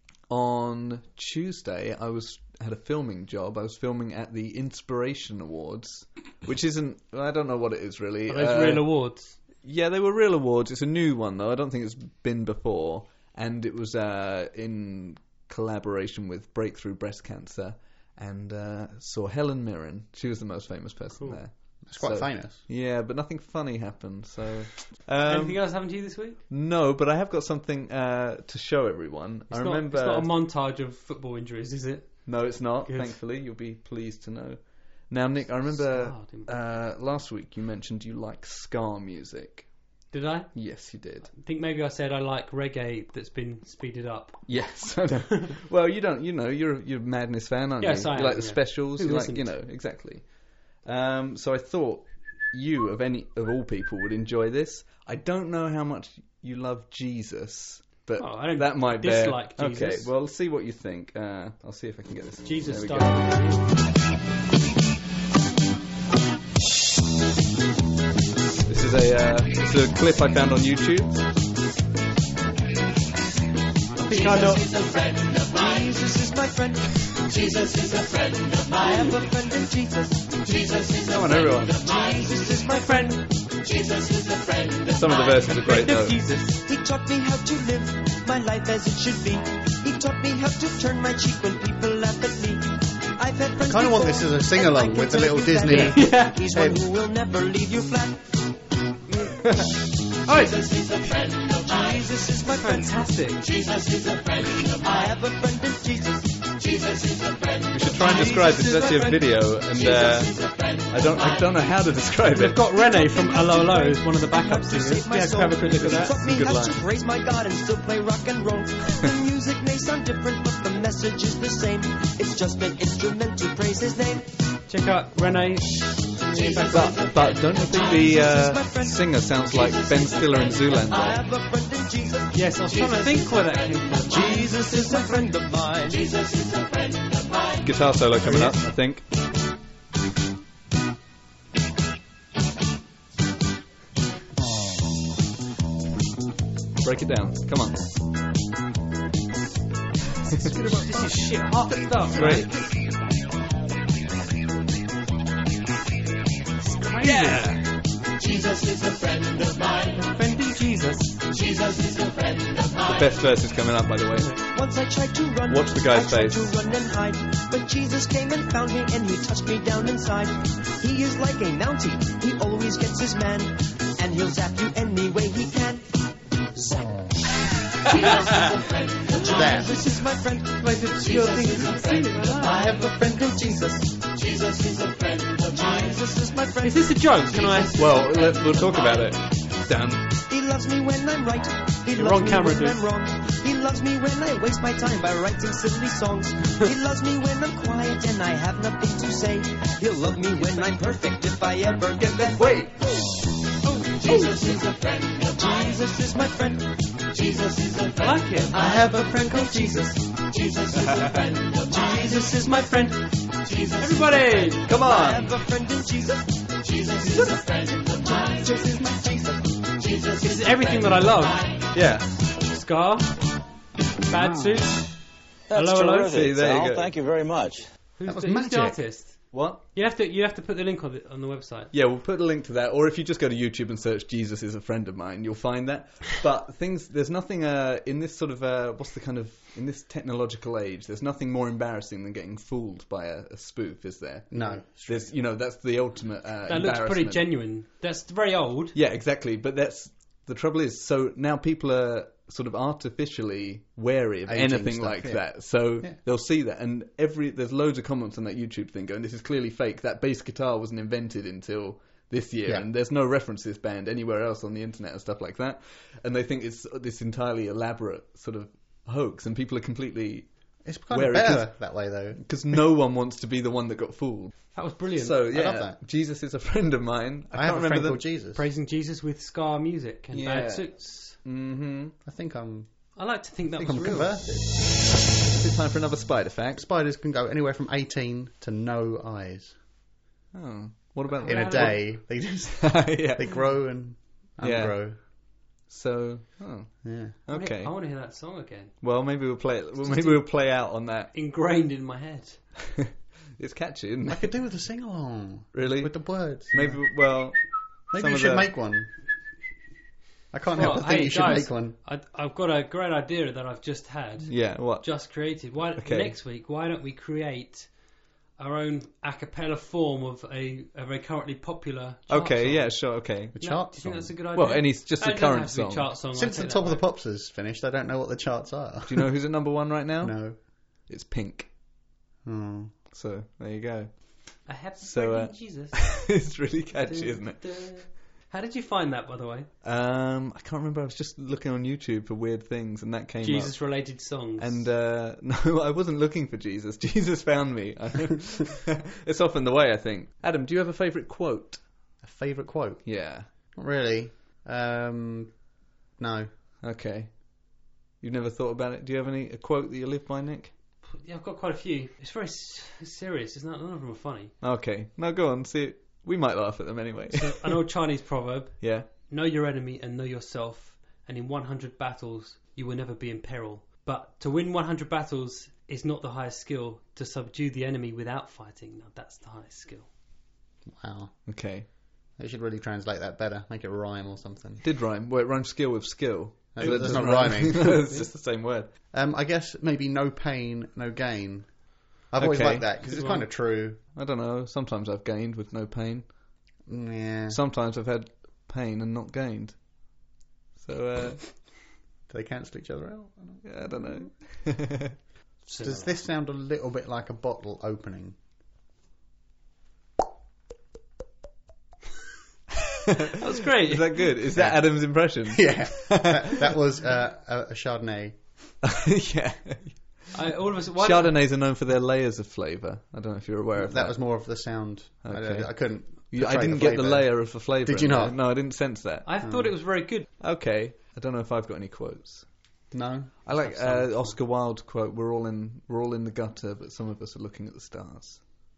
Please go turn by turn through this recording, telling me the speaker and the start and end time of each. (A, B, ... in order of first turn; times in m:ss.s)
0:00.3-0:08.9 A
0:08.3-0:09.4 B
0:09.6-0:25.8 A
0:21.8-0:22.6 C
0:25.2-0:26.4 B
0:26.5-0:30.3 A
0:29.5-0:33.2 B
0:32.2-0:39.7 A
0:35.6-0:36.5 B
0:40.1-0:45.1 B
0:40.5-0:41.3 A
0:44.5-1:03.5 A
0:47.8-0:49.5 B
0:58.2-1:00.1 B
1:02.4-1:03.7 B
1:08.7-1:11.2 A
1:14.0-1:24.9 D
1:14.0-1:14.7 B
1:21.0-1:21.8 A
1:22.7-1:23.2 B
1:24.9-1:26.2 A
1:25.6-1:26.6 B
1:26.6-1:38.4 D
1:33.6-1:36.8 C
1:35.7-1:36.4 B
1:40.3-1:40.8 B
1:40.5-1:43.1 D
1:42.4-1:43.5 B
1:43.7-1:50.9 D
1:47.7-1:52.6 A
1:52.3-1:56.2 B
1:52.7-2:04.3 D
1:55.7-1:56.8 A
2:04.7-2:05.9 B
2:06.2-2:13.5 D
2:06.6-2:11.2 A
2:12.3-2:14.8 B
2:14.1-2:16.5 D
2:17.6-2:19.0 A
2:18.2-2:18.6 B
2:26.8-2:27.8 A
2:30.3-2:32.7 B
2:30.4-2:31.1 C
2:32.1-2:32.5 A
2:36.6-2:37.5 B
2:37.0-2:37.6 A
2:39.9-2:41.2 B
2:42.8-2:44.4 A
2:44.4-2:56.0 D
2:45.5-2:46.6 A
2:57.8-3:07.9 D
2:59.2-2:59.8 C
3:00.6-3:02.6 B
3:02.4-3:03.8 C
3:06.6-3:07.8 B
3:07.8-3:10.1 A
3:10.3-3:22.6 D
3:11.9-3:12.8 B
3:22.0-3:22.8 A
3:23.7-3:24.3 B
3:24.0-3:27.9 D
3:27.9-3:29.8 B
3:28.5-3:29.9 D
3:30.5-3:31.0 D
3:30.8-3:31.3 A
3:31.7-3:32.5 D
3:32.1-3:34.6 B
3:34.7-3:35.4 A
3:34.7-3:39.3 D
3:38.5-3:39.2 C
3:40.2-3:41.7 B
3:41.7-3:42.1 A
3:42.3-3:43.2 B
3:44.0-3:44.9 B
3:44.2-3:44.5 C
3:45.5-3:47.7 E
3:45.5-3:46.1 B
3:46.1-3:46.9 A
3:48.0-3:51.7 B
3:48.0-3:48.9 C
3:49.3-3:49.6 A
3:51.7-4:07.3 A
4:04.3-4:05.2 C
4:06.5-4:08.8 B
4:08.7-4:30.3 A
4:14.3-4:16.0 C
4:30.6-4:32.6 C
4:30.9-4:38.0 A
4:34.5-4:35.2 B
4:35.3-4:35.8 C
4:37.3-4:38.4 C
4:38.4-4:41.2 B
4:40.1-4:42.0 A
4:42.0-4:42.9 C
4:43.0-4:44.1 B
4:43.6-4:44.7 C
4:45.3-4:46.6 A
4:46.6-4:49.6 C
4:50.3-4:53.5 A
4:51.2-4:55.0 C
4:51.2-4:51.8 B
4:54.4-4:55.1 A
4:55.7-4:57.8 A
4:56.8-4:57.2 C
4:57.3-4:58.8 B
4:58.8-5:01.1 A
4:59.8-5:00.3 B
5:01.1-5:02.5 B
5:03.4-5:04.4 A
5:04.1-5:06.9 C
5:05.5-5:08.5 A
5:07.9-5:08.9 C
5:10.3-5:11.8 C
5:10.5-5:17.7 B
5:14.3-5:16.1 A
5:18.4-5:26.9 B
5:22.1-5:23.4 A
5:23.3-5:24.1 C
5:24.3-5:25.9 A
5:26.1-5:29.1 C
5:28.9-5:31.5 A
5:30.0-5:30.4 C
5:32.2-5:32.8 C
5:32.9-5:37.7 A
5:34.5-5:36.1 B
5:36.8-5:39.5 B
5:39.6-5:51.6 A
5:43.2-5:44.7 B
5:52.0-5:55.4 C
5:52.8-5:53.3 A
5:56.0-5:56.3 C
5:56.6-6:00.5 A
6:00.9-6:04.3 B
6:04.4-6:07.6 A
6:07.1-6:19.9 B
6:08.6-6:08.9 A
6:20.7-6:21.2 C
6:21.3-6:21.7 A
6:22.2-6:24.6 C
6:24.6-6:28.7 A
6:26.5-6:28.0 C
6:26.6-6:28.0 B
6:28.9-6:33.8 C
6:32.2-6:33.2 A
6:33.9-6:36.1 A
6:36.7-6:37.4 C
6:37.3-6:39.6 A
6:40.6-6:41.3 A
6:42.1-6:43.4 C
6:43.4-6:45.0 A
6:45.4-6:45.9 B
6:45.6-6:48.2 C
6:53.2-6:54.1 B
6:53.7-6:56.6 A
6:54.3-6:58.2 C
6:58.6-7:00.1 A
7:00.1-7:01.2 B
7:00.8-7:04.2 A
7:03.6-7:08.2 C
7:05.0-7:09.1 A
7:09.0-7:10.1 B
7:09.2-7:09.5 C
7:10.2-7:12.3 A
7:12.7-7:13.2 C
7:13.2-7:18.2 A
7:13.3-7:14.2 B